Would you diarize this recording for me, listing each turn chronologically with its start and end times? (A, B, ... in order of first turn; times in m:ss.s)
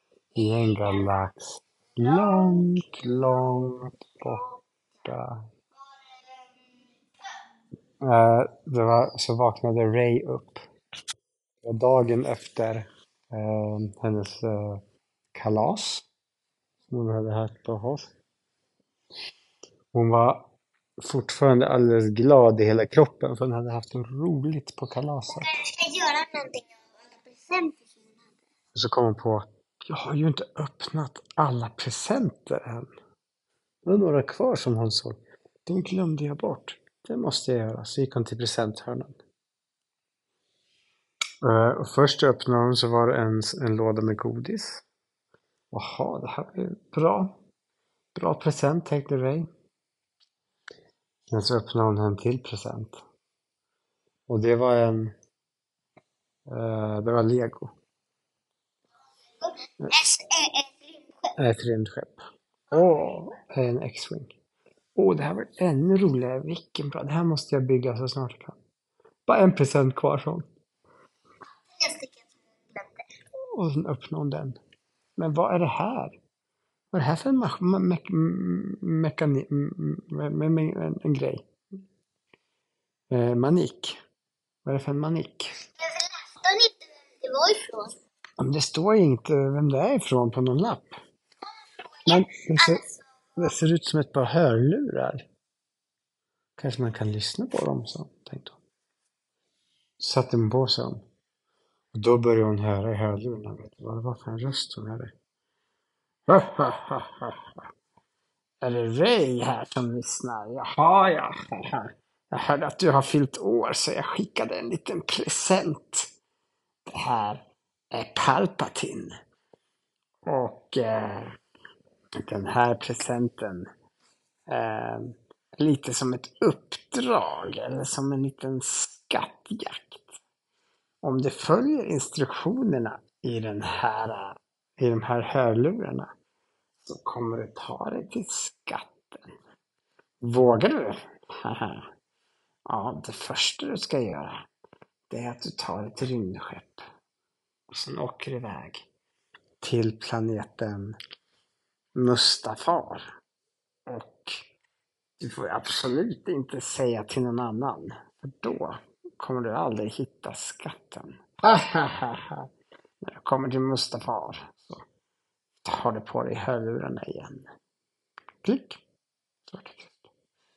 0:00.3-0:04.5 A
0:02.1-0:02.7 B
0:05.0-0:05.4 A
0:08.0-0:10.6 A
0:11.6-0:14.8 A
0:15.3-0:16.1 A
0:16.9-0:18.1 A
0:19.9-0:20.5 A
0:21.0-0:25.5 A
0:25.4-0:28.3 B
0:28.7-0:32.9 A
0:33.8-0:39.2 A
0:41.4-0:44.8 A
0:45.7-0:47.4 A
0:48.1-0:49.5 A
0:51.3-0:53.0 A
0:54.3-0:55.1 A
0:56.5-0:57.7 A
0:59.4-1:01.3 B
1:01.4-1:04.3 A
1:05.0-1:08.6 A
1:09.3-1:10.4 A
1:11.7-1:13.0 B
1:13.5-1:14.6 A
1:15.2-1:16.2 A
1:16.9-1:21.5 A
1:23.1-1:24.0 A
1:24.6-1:25.5 A
1:25.8-1:28.0 B
1:28.4-1:31.0 A
1:32.0-1:33.0 B
1:32.1-1:32.8 A
1:33.4-1:35.2 A
1:36.6-1:38.6 A
1:40.0-1:41.0 A
1:41.9-1:45.1 A
1:46.3-1:47.5 A
1:48.6-1:56.1 A
1:56.9-1:59.2 A
2:00.2-2:01.4 A
2:02.2-2:03.7 A
2:04.5-2:10.2 A
2:11.0-2:16.1 A
2:16.8-2:19.3 A
2:20.2-2:21.9 A
2:22.7-2:24.4 A
2:25.1-2:26.9 A
2:27.7-2:28.9 A
2:29.6-2:31.0 A
2:31.9-2:33.0 A
2:33.9-2:34.4 A
2:35.2-2:42.5 A
2:43.0-2:44.8 A
2:45.6-2:47.5 A
2:48.4-2:48.8 A
2:49.5-2:50.1 A